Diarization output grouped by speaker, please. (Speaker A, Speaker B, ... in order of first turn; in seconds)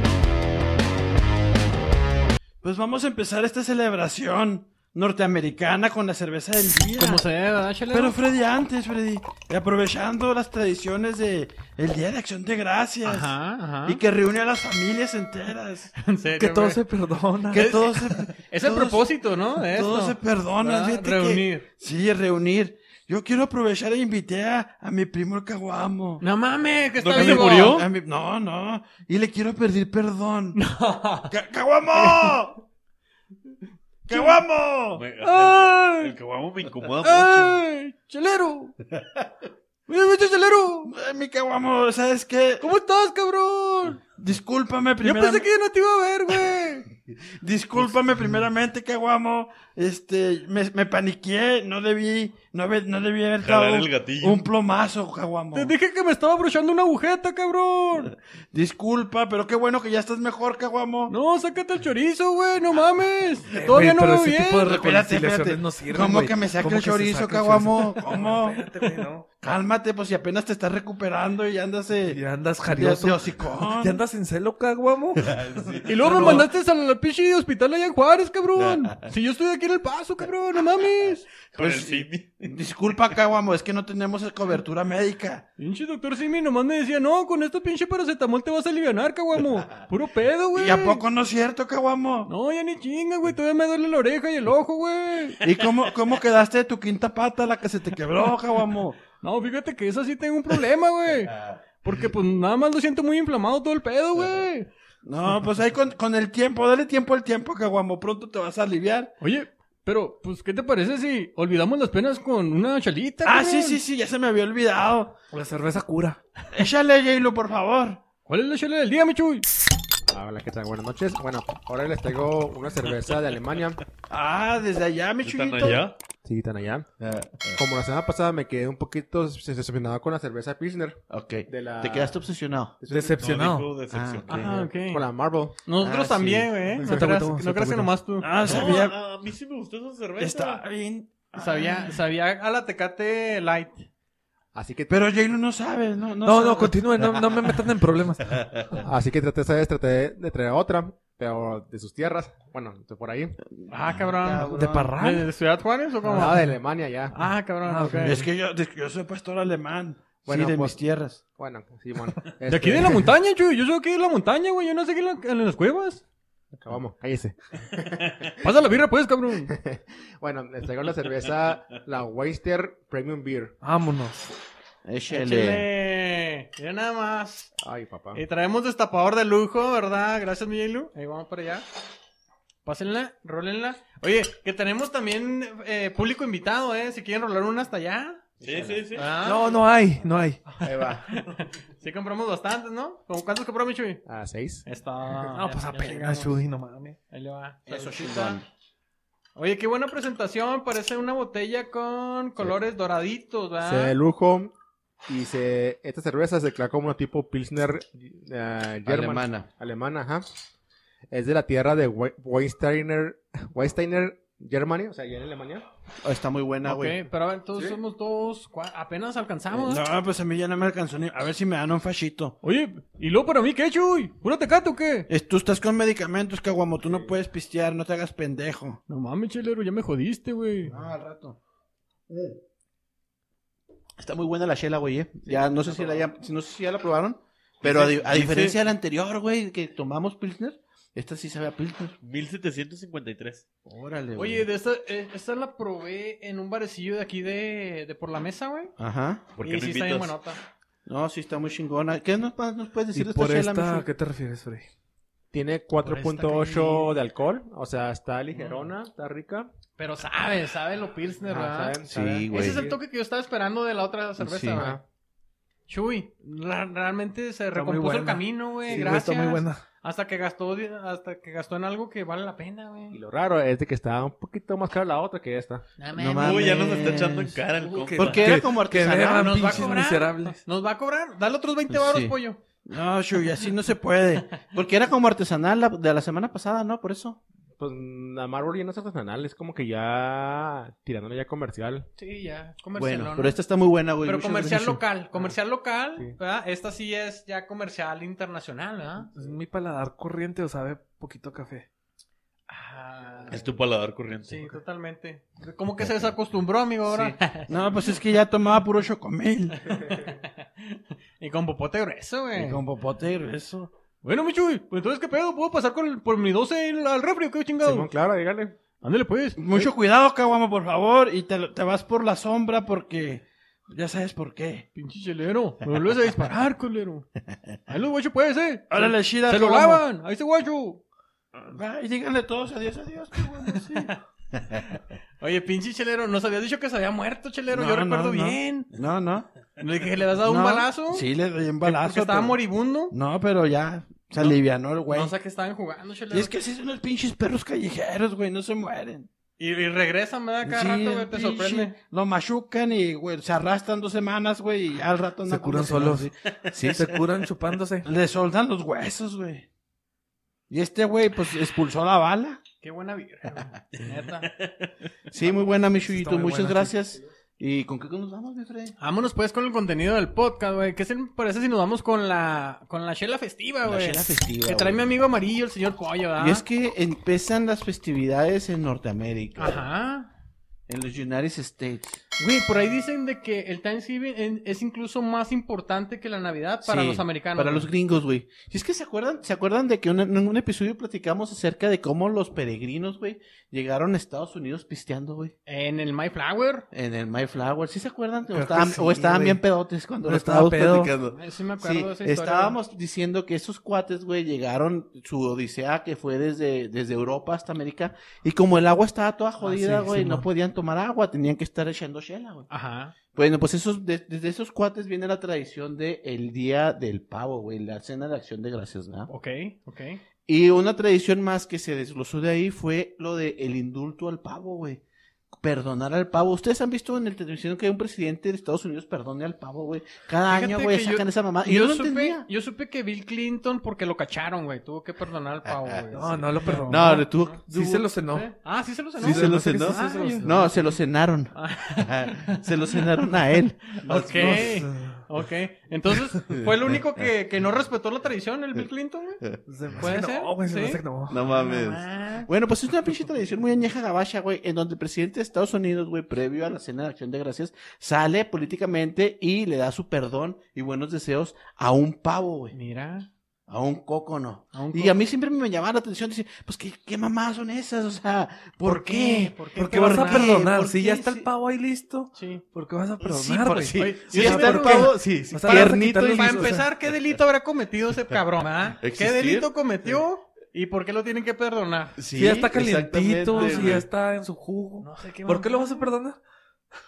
Speaker A: 2.6-7.2, 7.9-13.3, 13.9-15.9, 17.5-26.2, 27.2-30.6, 31.3-32.5, 34.1-35.0, 40.9-42.6, 44.2-45.5, 47.4-55.7, 58.5-61.1, 64.9-72.2, 72.8-74.0, 84.6-85.4, 90.6-92.3, 95.4-99.0, 105.1-109.1, 113.2-115.2, 116.5-118.0, 124.1-125.9, 138.2-139.0, 140.2-141.9, 144.9-146.8, 158.1-161.2, 219.6-222.3, 226.1-228.8, 282.7-284.4, 307.5-309.7, 312.4-313.7, 319.4-324.6, 328.7-329.8, 331.6-333.8, 337.5-339.2, 340.5-342.4, 342.9-345.1, 346.1-349.1, 350.4-355.8, 357.9-359.4, 360.5-362.4
Speaker B: 7.0-8.2, 13.0-14.0, 16.0-16.8, 17.5-21.7, 26.2-27.9, 30.6-31.4, 31.9-32.5, 34.1-34.4, 35.2-36.2, 37.0-38.8, 39.9-40.9, 42.6-44.0, 45.0-46.9, 55.5-58.1, 61.1-64.7, 75.9-81.3, 85.6-91.0, 92.3-95.4, 99.2-104.7, 109.2-113.8, 118.3-119.5, 134.3-135.1, 135.7-138.3, 141.3-143.9, 153.7-156.5, 157.1-158.2, 162.5-166.0, 168.4-169.5, 175.1-177.5, 178.1-181.7, 182.7-188.2, 188.9-189.5, 191.1-194.0, 194.7-196.4, 197.1-198.4, 199.3-203.9, 216.6-219.8, 222.4-225.1, 228.9-230.7, 235.7-236.0, 244.2-248.7, 249.4-250.4, 255.8-257.0, 258.3-258.7, 259.8-261.8, 262.3-264.8, 265.7-273.0, 275.8-276.9, 277.6-277.9, 279.1-282.4, 292.0-293.4, 294.0-299.1, 302.5-303.4, 304.2-307.5, 309.6-312.6, 314.0-317.9, 318.8-319.7, 324.8-327.1, 327.7-330.8, 333.5-334.0, 335.2-338.7, 339.6-341.1, 341.6-342.9, 344.9-346.3, 349.4-351.8, 362.6-364.3, 368.8-376.4, 379.4-380.1, 382.2-387.7, 395.5-396.7, 401.1-402.6, 409.4-410.2, 412.5-412.9, 419.1-420.0, 430.3-437.4, 438.1-440.8, 441.3-442.8, 443.8-449.2, 449.8-452.3, 462.5-463.1, 464.5-465.0, 468.6-470.4, 472.1-472.4, 473.8-482.0, 483.3-483.8, 484.8-485.9
Speaker C: 16.4-17.9, 63.5-69.3, 72.0-75.3, 115.3-116.2, 132.9-133.7, 136.8-137.9, 146.2-148.4, 154.4-155.3, 157.7-158.3, 173.6-174.2, 189.2-190.7, 195.3-197.0, 252.9-254.7, 267.5-269.6, 277.8-280.4, 299.1-301.7, 355.2-357.9, 365.9-366.8, 398.3-399.4, 400.0-400.9, 435.9-438.3, 439.0-440.5, 444.1-445.0, 449.5-451.2, 469.6-476.7, 482.1-486.2
Speaker D: 27.0-27.9, 34.9-37.6, 53.4-54.5, 75.2-76.5, 81.5-82.5, 125.2-126.0, 133.2-134.6, 138.4-140.6, 188.4-189.1, 237.6-238.6, 242.0-243.4, 249.4-250.1, 276.2-278.4, 303.3-304.6
Speaker E: 27.3-27.7, 64.7-66.2, 75.5-76.4, 81.6-85.1, 105.2-105.6, 127.0-127.6, 131.1-132.8, 133.9-134.6, 135.8-136.5, 153.9-155.0, 174.8-175.7, 188.4-188.8, 190.6-191.0, 197.7-198.4, 208.9-209.5, 216.0-217.0, 225.1-228.6, 230.7-231.4, 232.1-232.4, 234.0-242.0, 243.7-244.5, 248.8-249.2, 250.9-253.9, 261.9-262.6, 264.2-264.7, 275.9-277.4, 278.0-279.8, 281.7-282.1, 282.7-283.5, 284.4-287.2, 292.8-294.8, 306.9-307.7, 331.5-333.7, 338.8-339.2, 340.2-340.9, 354.8-357.0, 365.1-368.8, 373.7-374.9, 376.2-379.6, 380.7-382.0, 386.6-395.3, 396.7-412.5, 413.1-419.1, 420.3-424.8, 425.4-432.3, 435.4-436.1, 436.7-437.9, 439.0-444.6, 451.1-462.6, 463.5-471.3, 473.0-476.6, 478.8-480.0, 482.0-483.9
Speaker F: 120.1-123.8, 126.2-126.9, 127.6-132.2, 132.8-133.2, 134.9-135.6, 144.5-145.0, 148.8-153.4, 156.1-157.1, 160.3-163.1, 166.6-168.5, 169.5-173.5, 177.6-178.2, 194.1-194.6, 203.6-204.5, 205.1-210.3, 211.1-215.7, 255.3-259.5, 261.3-262.8, 264.5-264.8, 272.9-275.6, 287.6-291.9, 317.6-318.6